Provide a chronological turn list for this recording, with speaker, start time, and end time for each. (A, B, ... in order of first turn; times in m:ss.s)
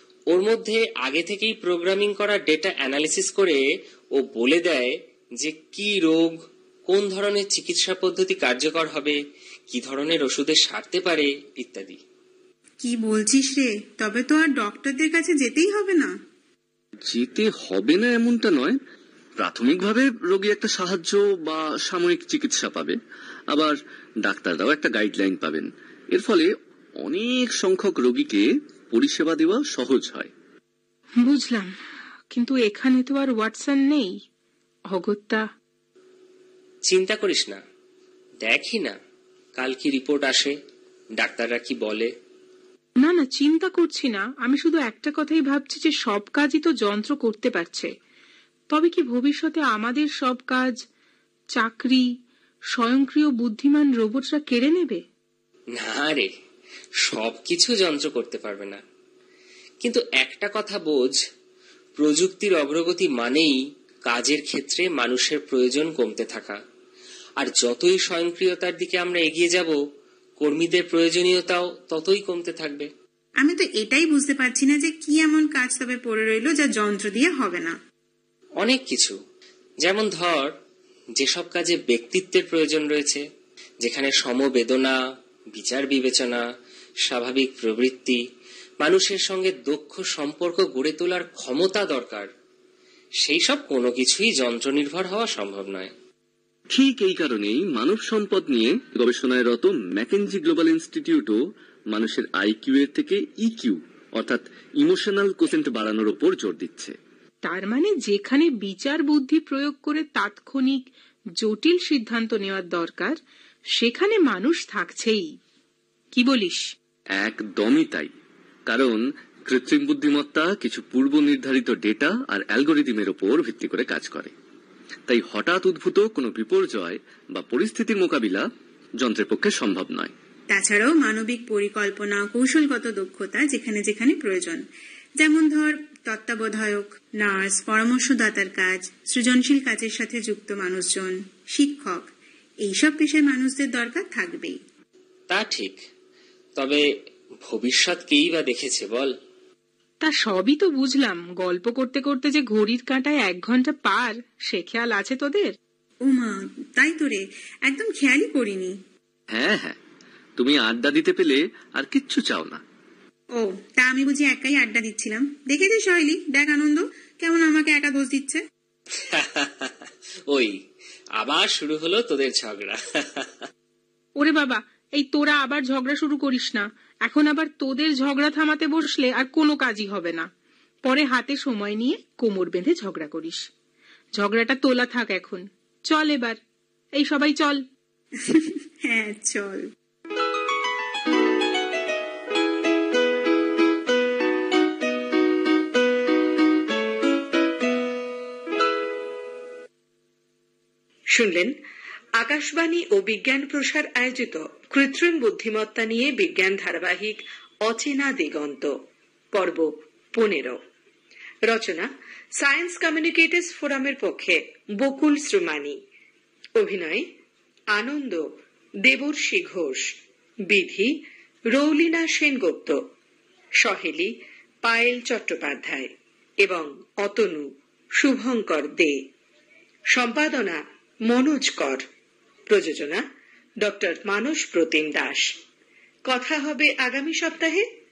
0:00.3-0:03.6 A
0:04.2-0:09.2 A
0:09.7-0:12.0 A
0:12.8-0:16.1 B
0:17.1-0:18.8 C
0:19.4-0:23.0 C
0:23.5-0:26.5 C
0:27.0-0:30.3 C
0:31.3-0:31.7 D
0:32.3-0:34.1 D
0:34.9-0:35.4 D
0:36.9-0:37.6 A
0:38.4-0:39.0 A
0:39.6-0:40.6 A
0:41.2-0:42.1 A
0:43.0-0:47.9 D
0:48.7-0:50.7 D
0:51.6-0:52.0 D
0:52.8-0:55.0 D
0:55.8-0:56.3 A
0:57.1-0:58.8 A
0:59.8-1:01.2 A
1:02.0-1:06.6 A
1:07.4-1:09.8 A
1:10.4-1:12.9 A
1:13.4-1:17.8 B
1:18.6-1:19.2 A
1:19.8-1:20.5 A
1:21.2-1:23.2 A
1:23.8-1:25.0 A
1:25.5-1:26.4 A
1:27.1-1:28.2 A
1:28.8-1:32.3 A
1:33.2-1:35.9 A
1:36.7-1:41.4 C
1:41.9-1:47.0 C
1:47.5-1:50.8 D
1:51.4-1:53.2 D
1:53.8-1:55.3 D
1:56.2-1:56.6 D
1:57.2-1:58.1 C
1:58.7-2:04.3 C
2:05.1-2:08.5 C
2:09.0-2:10.1 C
2:10.5-2:14.6 B
2:15.2-2:22.1 B
2:22.6-2:24.6 B
2:25.3-2:25.8 A
2:26.6-2:26.8 A
2:27.5-2:29.1 A
2:30.0-2:35.5 D
2:36.1-2:38.8 B
2:39.3-2:39.8 C
2:40.4-2:42.6 C
2:43.4-2:48.4 B
2:49.0-2:50.6 A
2:51.2-2:53.5 A
2:54.2-3:00.3 D
3:00.9-3:03.5 D
3:04.2-3:06.4 D
3:07.0-3:07.6 D
3:08.2-3:09.6 B
3:21.1-3:21.6 E
3:22.2-3:28.8 E
3:29.3-3:30.6 E
3:31.5-3:35.8 E
3:36.6-3:37.1 E
3:37.7-3:38.3 E
3:38.8-3:39.9 E
3:40.5-3:41.0 E
3:41.5-3:42.8 E
3:43.6-3:45.9 E
3:46.4-3:49.1 E
3:49.9-3:51.9 E
3:52.5-3:53.0 E
3:53.6-3:55.3 E
3:56.1-3:57.7 E